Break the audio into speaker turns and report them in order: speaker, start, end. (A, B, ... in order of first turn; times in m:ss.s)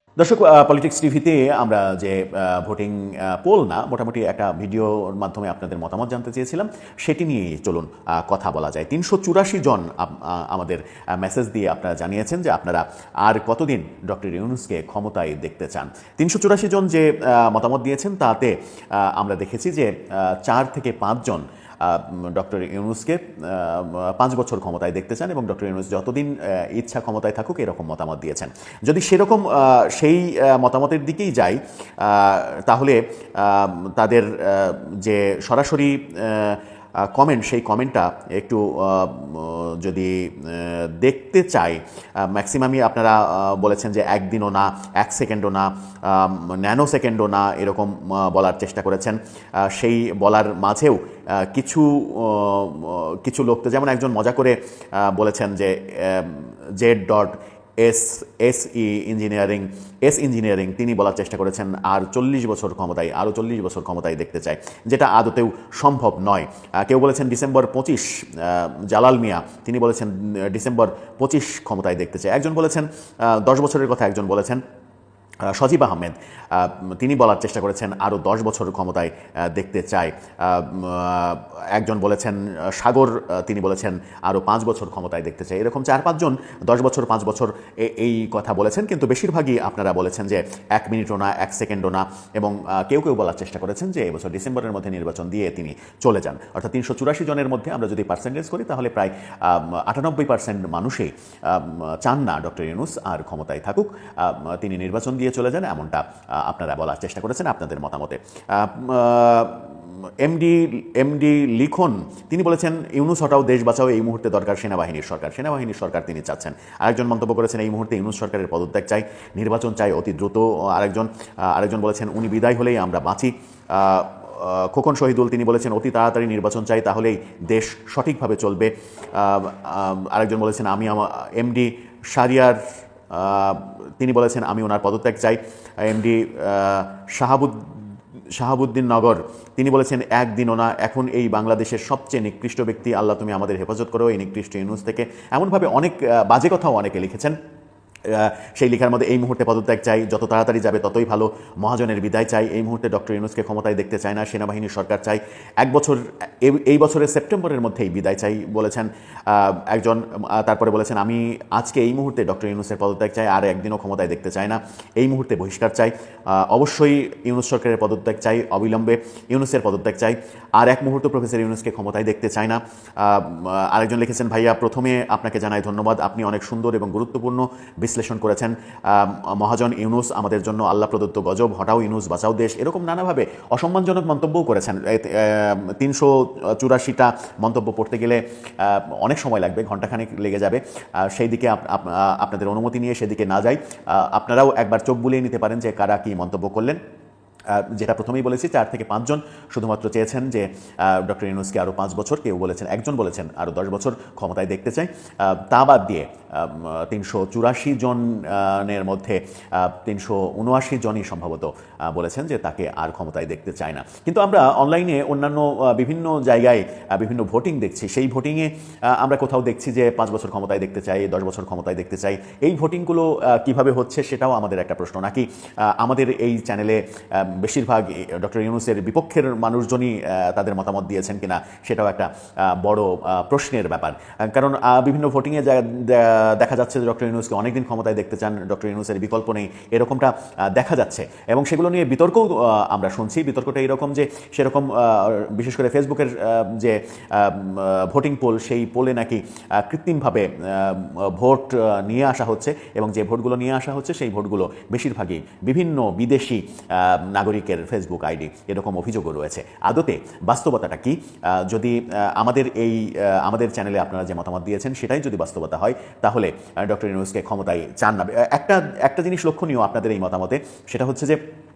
0:00.2-1:14.6 A
1:15.5-2:12.6 A
2:13.1-2:17.7 A
2:18.4-2:27.4 A
2:28.1-3:16.8 A
3:17.5-4:31.2 A